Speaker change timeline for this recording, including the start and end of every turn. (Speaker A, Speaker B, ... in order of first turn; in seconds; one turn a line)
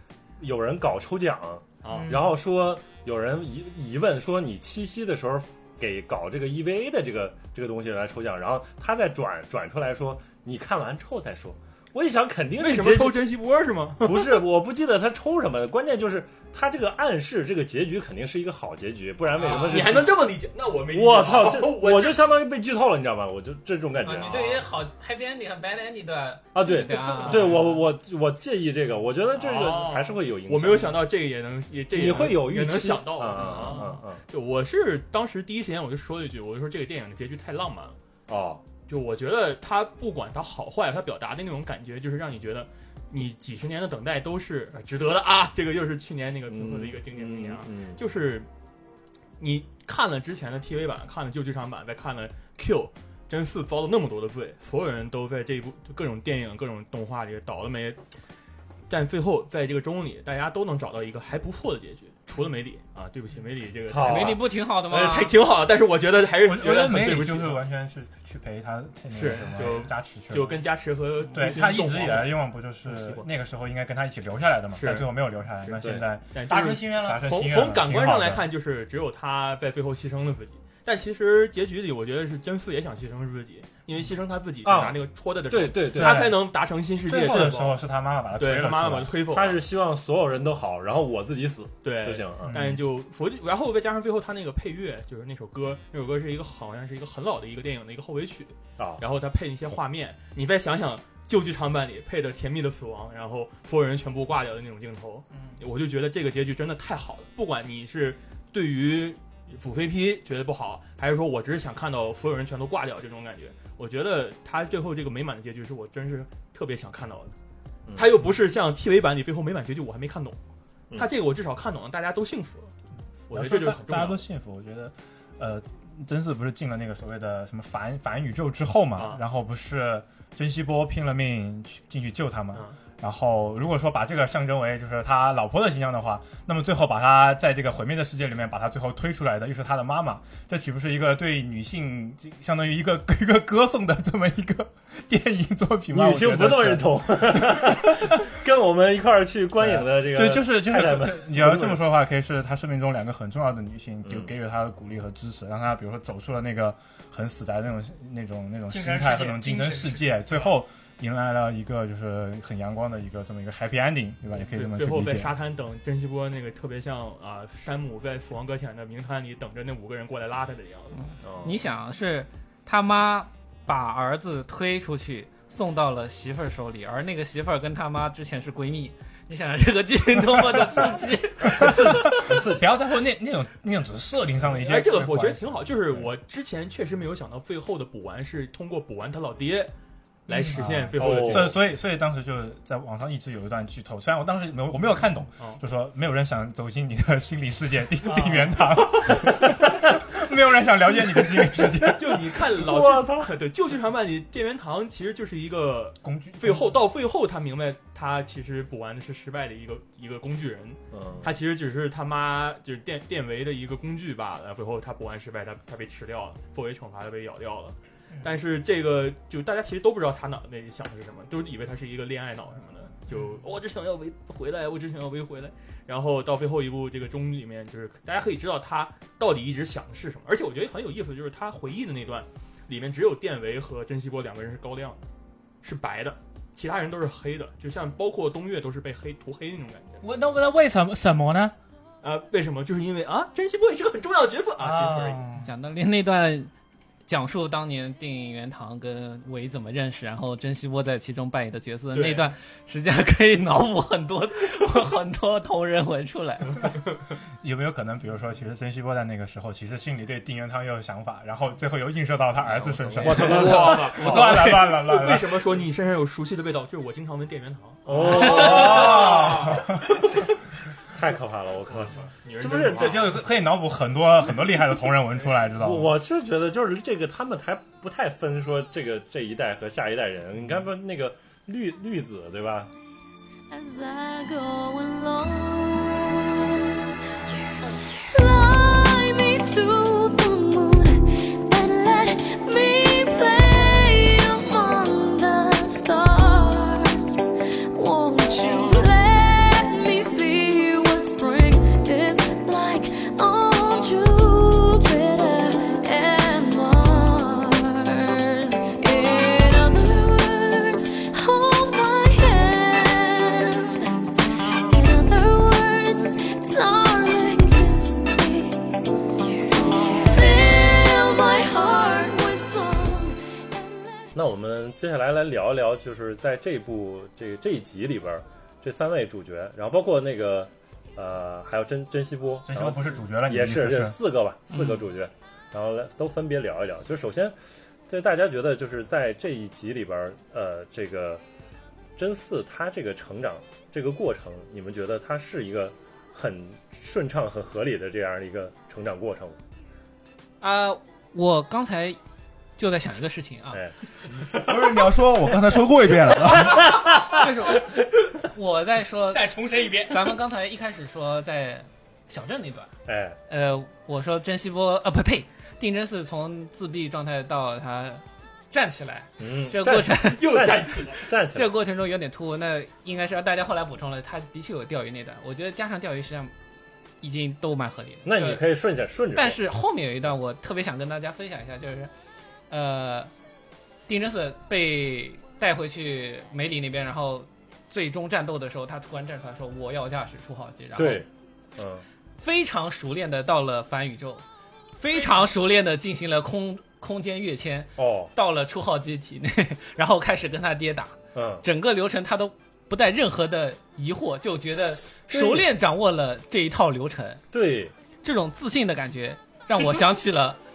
Speaker A: 0.4-13.2
Speaker B: 1.8-2.2
Speaker C: 1.9-2.3
Speaker B: 12.6-14.4
Speaker A: 14.0-20.3
Speaker B: 19.3-22.2
Speaker D: 19.4-19.9
Speaker A: 20.9-24.6
Speaker D: 24.0-27.7
Speaker A: 26.5-31.1
Speaker B: 27.2-27.8
Speaker B: 29.3-38.0
Speaker A: 31.9-34.2
Speaker A: 38.3-38.6
Speaker B: 38.9-48.5
Speaker A: 46.5-48.0
Speaker B: 49.4-58.0
Speaker B: 58.9-67.7
Speaker A: 63.9-64.4
Speaker D: 64.0-65.4
Speaker E: 66.3-70.7
Speaker B: 69.1-73.3
Speaker E: 71.3-78.5
Speaker B: 74.7-89.7
Speaker A: 75.8-76.1
Speaker C: 76.5-77.3
Speaker A: 84.6-86.3
Speaker E: 85.9-89.2
Speaker A: 87.2-87.5
Speaker A: 89.3-92.6
Speaker B: 91.8-117.3
Speaker E: 92.4-92.8
Speaker C: 105.3-105.6
Speaker A: 117.9-118.2
Speaker B: 118.0-120.4
Speaker B: 121.0-122.7
Speaker B: 123.3-124.3
Speaker E: 123.3-148.3
Speaker B: 128.9-129.2
Speaker B: 132.5-132.8
Speaker A: 145.9-151.8
Speaker E: 149.6-165.4
Speaker A: 154.1-154.3
Speaker C: 158.7-160.5
Speaker B: 164.4-171.0
Speaker D: 170.9-181.7
Speaker A: 171.2-171.6
Speaker A: 181.5-182.6
Speaker E: 181.6-186.1
Speaker B: 184.6-189.7
Speaker B: 190.3-191.6
Speaker C: 190.3-190.9
Speaker E: 190.7-202.3
Speaker A: 191.0-191.6
Speaker B: 195.4-195.6
Speaker C: 198.0-198.6
Speaker A: 201.7-203.4
Speaker B: 201.9-235.1
Speaker E: 206.0-206.8
Speaker A: 210.9-211.3
Speaker C: 223.1-223.4
Speaker B: 235.6-240.0
Speaker C: 240.0-241.6
Speaker B: 242.0-245.3
Speaker C: 244.6-245.5
Speaker D: 245.4-246.5
Speaker D: 247.1-256.8
Speaker B: 251.9-252.3
Speaker E: 257.4-265.5
Speaker B: 262.4-269.9
Speaker A: 263.0-264.6
Speaker A: 267.9-270.0
Speaker E: 268.1-269.8
Speaker A: 270.9-273.3
Speaker B: 271.7-273.3
Speaker E: 272.7-275.9
Speaker A: 275.6-282.7
Speaker F: 283.5-297.2
Speaker F: 297.7-324.1
Speaker D: 307.9-308.2
Speaker A: 324.1-337.4
Speaker E: 332.4-334.0
Speaker D: 334.5-334.8
Speaker A: 337.9-341.2
Speaker A: 342.0-349.4
Speaker D: 350.4-352.0
Speaker D: 352.6-353.6
Speaker G: 354.4-356.8
Speaker A: 356.6-357.1
Speaker D: 357.0-362.7
Speaker C: 359.1-360.0
Speaker A: 362.9-363.2
Speaker D: 363.3-370.4
Speaker A: 369.2-371.5
Speaker B: 370.1-371.0
Speaker D: 371.0-376.3
Speaker D: 377.0-378.4
Speaker A: 378.1-379.4
Speaker D: 379.1-381.9
Speaker D: 382.5-383.1
Speaker D: 383.9-391.1
Speaker A: 390.8-391.9
Speaker D: 392.2-394.2
Speaker D: 394.8-407.2
Speaker A: 397.8-398.1
Speaker A: 401.1-401.4
Speaker A: 405.1-405.5
Speaker A: 407.3-407.7
Speaker D: 408.0-410.4